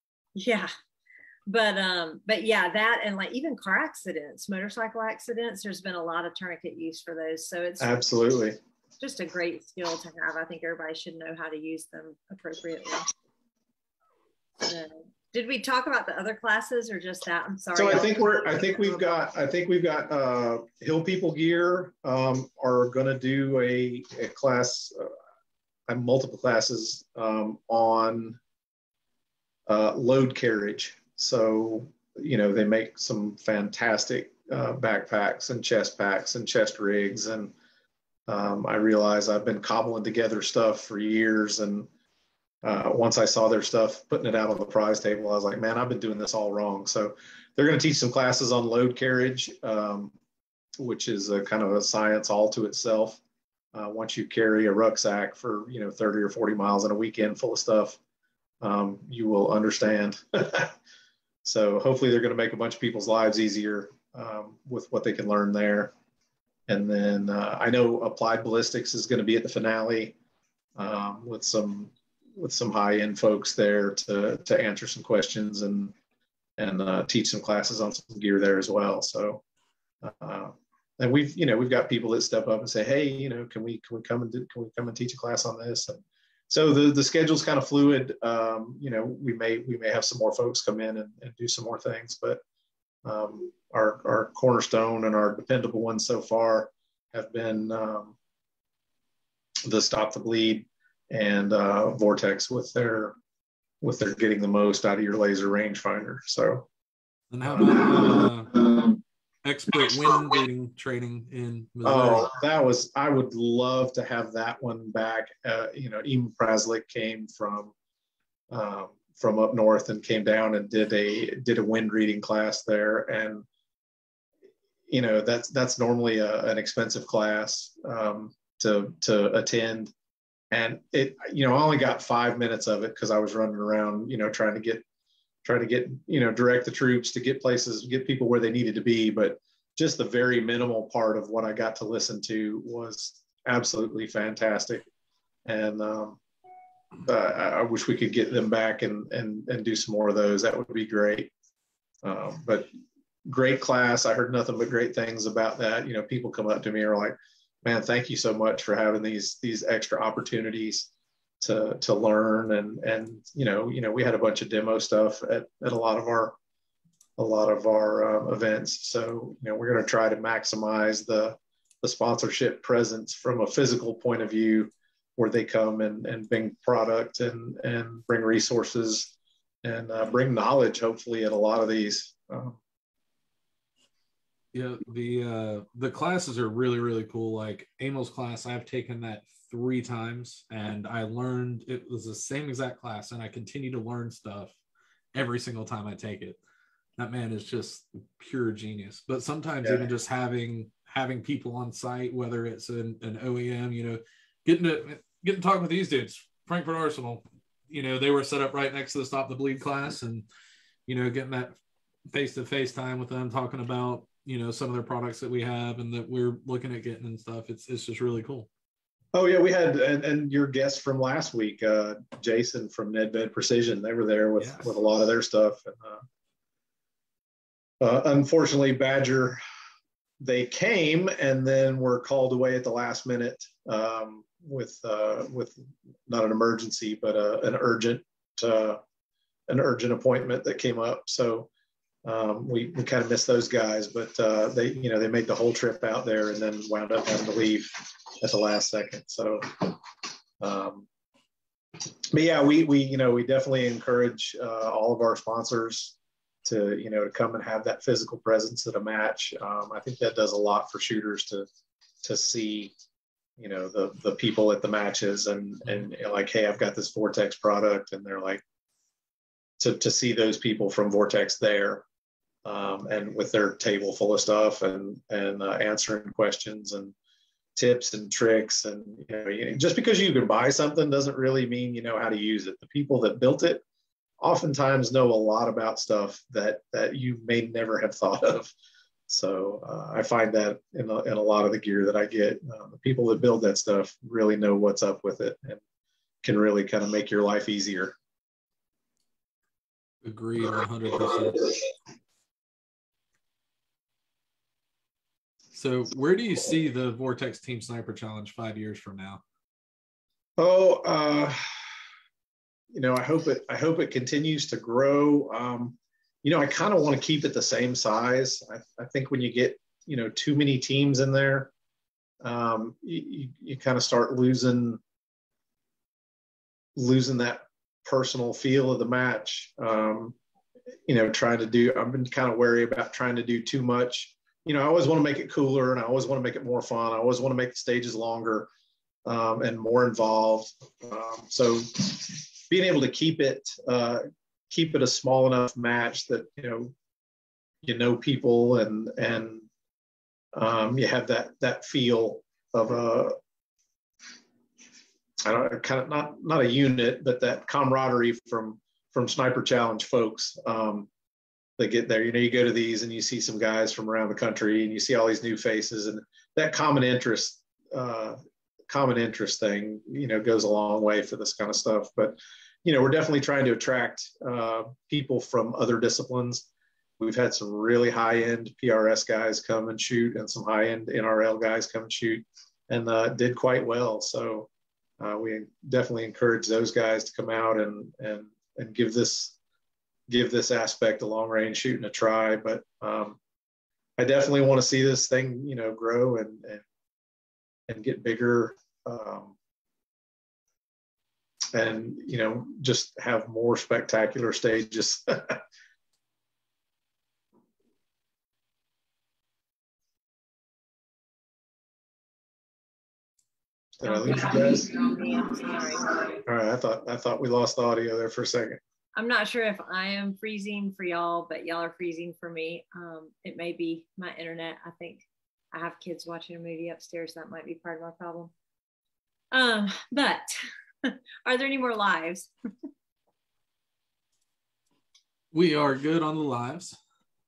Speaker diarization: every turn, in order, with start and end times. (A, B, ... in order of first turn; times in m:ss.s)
0:00.4-0:00.7 A
0:01.5-0:07.9 A
0:07.8-0:08.6 B
0:09.0-0:13.1 A
0:14.6-0:19.0 A
0:17.7-0:25.1 B
0:25.9-0:28.4 B
0:29.7-0:37.5 B
0:38.3-0:41.9 B
0:42.6-0:50.1 B
0:50.8-0:53.2 B
0:53.7-0:58.0 B
0:58.6-1:00.7 B
1:01.4-1:05.9 B
1:06.7-1:10.1 B
1:10.8-1:15.9 B
1:16.6-1:19.4 B
1:20.0-1:32.4 B
1:33.0-1:38.2 B
1:39.6-1:43.2 B
1:43.8-1:46.7 B
1:47.3-1:48.9 C
1:47.6-1:48.0 B
1:49.4-1:52.3 C
1:51.8-1:57.7 B
1:58.5-2:03.4 B
2:04.9-2:09.9 B
2:10.5-2:14.8 B
2:15.4-2:24.8 B
2:25.4-2:26.2 B
2:27.0-2:31.3 B
2:32.0-2:32.7 B
2:33.2-2:46.4 B
2:47.2-3:02.6 B
3:04.5-3:14.6 C
3:15.1-3:16.4 C
3:17.0-3:30.2 C
3:19.6-3:19.9 B
3:30.9-3:31.6 C
3:32.1-3:38.5 C
3:39.1-3:46.0 B
3:44.4-3:44.7 C
3:47.8-3:49.4 B
3:50.2-3:58.8 B
3:59.5-4:01.5 B
4:02.0-4:09.8 B
4:10.4-4:10.9 B
4:12.1-4:21.5 B
4:22.0-4:22.7 B
4:23.4-4:28.4 B
4:29.6-4:31.8 B
4:32.4-4:36.9 B
4:37.6-4:43.6 B
4:44.2-4:48.5 B
4:49.1-4:55.6 B
4:56.2-4:57.9 B
5:00.0-5:01.7 C
5:05.5-5:09.2 C
5:10.4-5:11.4 B
5:12.7-5:21.5 B
5:22.2-5:24.8 B
5:26.8-5:30.2 B
5:30.9-5:38.5 B
5:39.0-5:46.7 B
5:47.6-5:49.5 B
5:50.3-5:53.2 B
5:55.2-6:00.9 B
6:01.6-6:08.2 B
6:08.7-6:16.5 B
6:17.0-6:24.5 B
6:25.0-6:29.3 B
6:30.1-6:33.2 B
6:34.0-6:36.6 B
6:37.7-6:39.4 B
6:41.5-6:45.4 B
6:53.8-6:54.7 B
6:53.8-6:56.2 A
6:56.2-6:58.6 B
6:59.0-7:08.3 A
7:09.3-7:10.3 A
7:10.8-7:12.3 A
7:15.3-7:16.8 C